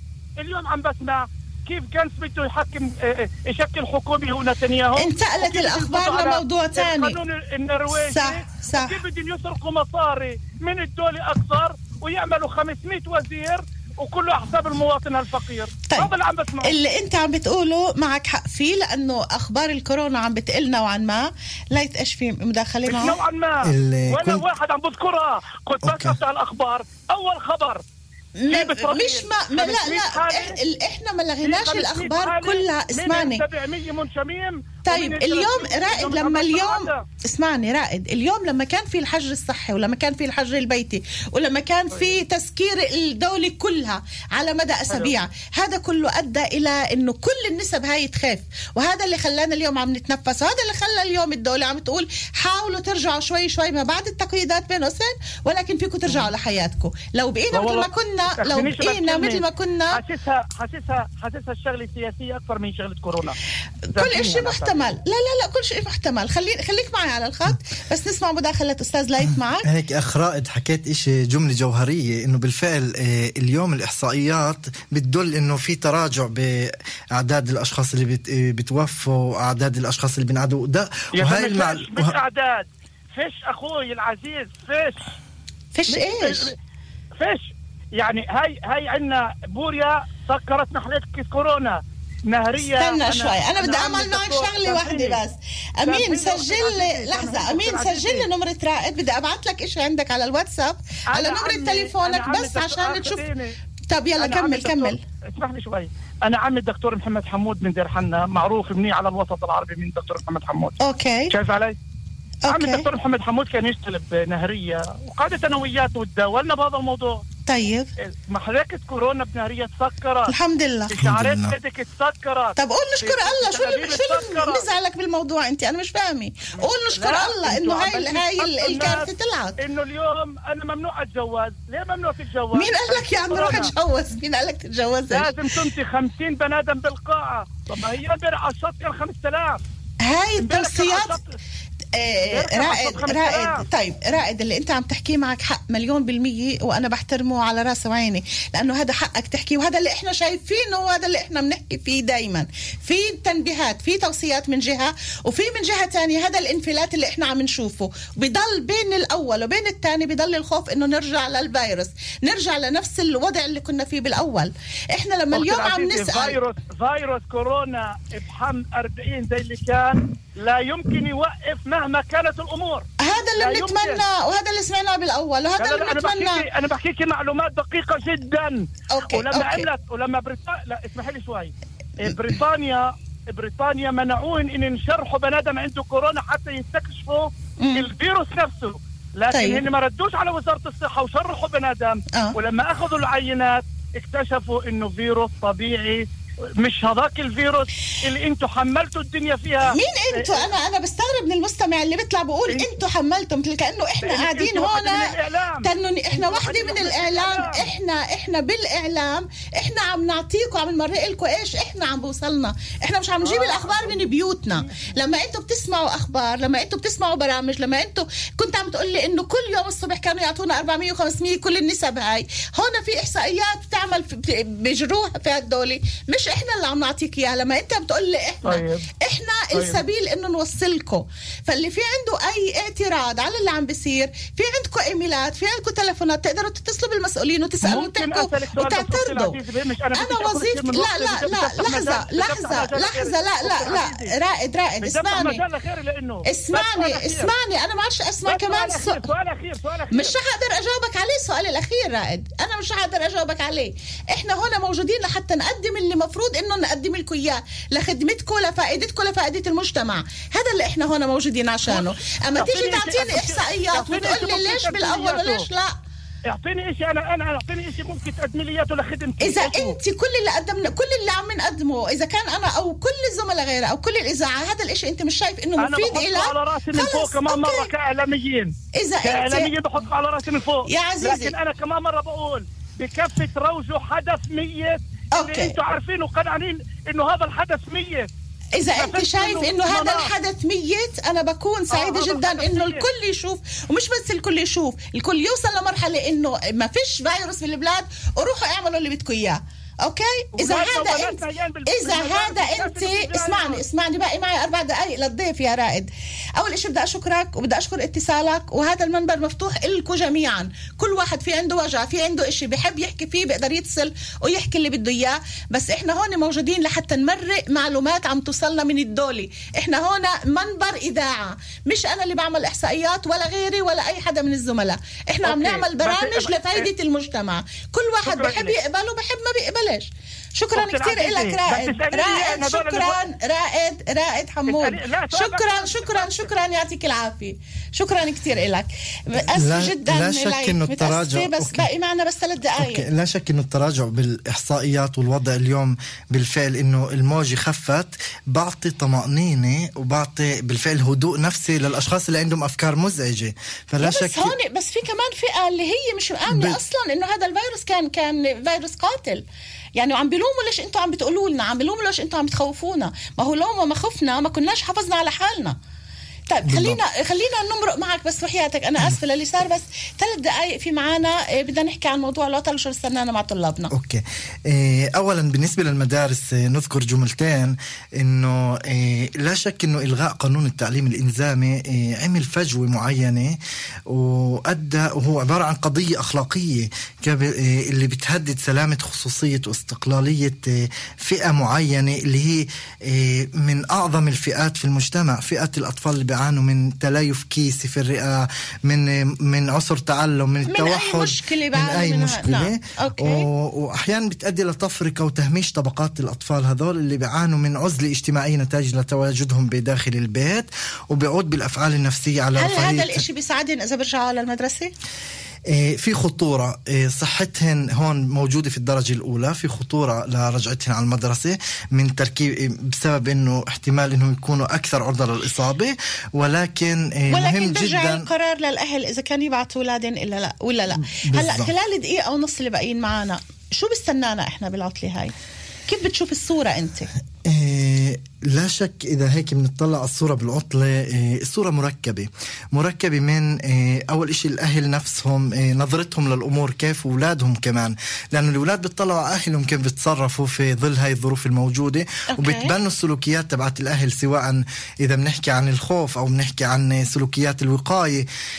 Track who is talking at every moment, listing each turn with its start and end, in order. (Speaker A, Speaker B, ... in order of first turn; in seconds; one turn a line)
Speaker A: 0.4-16.7
Speaker B: 5.0-7.2
Speaker B: 8.1-8.9
Speaker B: 16.6-23.2
Speaker A: 22.9-27.8
Speaker C: 23.6-24.5
Speaker C: 25.8-26.2
Speaker B: 28.4-33.4
Speaker A: 28.5-30.6
Speaker A: 31.4-37.0
Speaker B: 34.9-60.0
Speaker A: 57.5-63.4
Speaker B: 63.9-69.7
Speaker A: 64.0-64.8
Speaker C: 69.6-82.2
Speaker A: 81.2-85.1
Speaker B: 85.8-86.5
Speaker A: 85.9-86.5
Speaker A: 87.2-95.2
Speaker B: 92.7-103.2
Speaker A: 95.9-98.3
Speaker A: 101.1-103.5
Speaker B: 103.9-105.0
Speaker A: 104.2-110.8
Speaker B: 110.8-111.3
Speaker A: 111.3-111.8
Speaker B: 112.5-112.8
Speaker A: 112.5-117.2
Speaker B: 117.5-117.9
Speaker A: 118.0-120.3
Speaker B: 120.3-120.9
Speaker A: 120.9-124.7
Speaker C: 121.0-121.5
Speaker B: 122.6-129.6
Speaker A: 126.6-133.7
Speaker B: 132.6-135.3
Speaker A: 135.1-139.6
Speaker B: 140.0-141.2
Speaker A: 140.4-141.3
Speaker B: 141.9-166.4
Speaker A: 142.3-143.6
Speaker A: 165.3-174.0
Speaker B: 173.0-176.4
Speaker A: 175.6-196.1
Speaker B: 178.9-179.7
Speaker B: 187.6-187.9
Speaker B: 189.3-189.6
Speaker A: 196.6-200.4
Speaker B: 199.6-205.1
Speaker A: 204.0-207.7
Speaker B: 205.6-239.4
Speaker A: 213.2-214.9
Speaker A: 228.4-228.8
Speaker A: 229.5-229.8
Speaker A: 237.6-244.1
Speaker B: 239.9-245.4
Speaker A: 244.8-247.3
Speaker B: 246.3-249.1
Speaker A: 248.3-250.2
Speaker B: 249.9-265.7
Speaker A: 261.7-265.5
Speaker A: 266.3-269.8
Speaker B: 269.2-277.7
Speaker A: 275.6-288.1
Speaker B: 278.8-279.5
Speaker B: 280.7-281.4
Speaker B: 285.1-285.6
Speaker B: 288.6-342.9
Speaker A: 288.8-290.1
Speaker A: 291.7-292.9
Speaker A: 300.4-303.6
Speaker A: 325.2-326.7
Speaker A: 328.1-328.6
Speaker A: 330.6-333.0
Speaker A: 334.5-336.3
Speaker C: 339.4-341.7
Speaker C: 342.6-354.4
Speaker B: 353.8-359.2
Speaker C: 356.3-356.6
Speaker B: 359.8-365.6
Speaker B: 366.3-373.7
Speaker C: 366.5-366.8
Speaker C: 373.7-413.0
Speaker B: 400.5-403.3
Speaker B: 412.4-414.7
Speaker C: 415.5-428.1
Speaker B: 427.1-435.1
Speaker C: 430.8-431.5
Speaker B: 435.7-436.9
Speaker C: 437.2-458.1
Speaker B: 452.1-452.5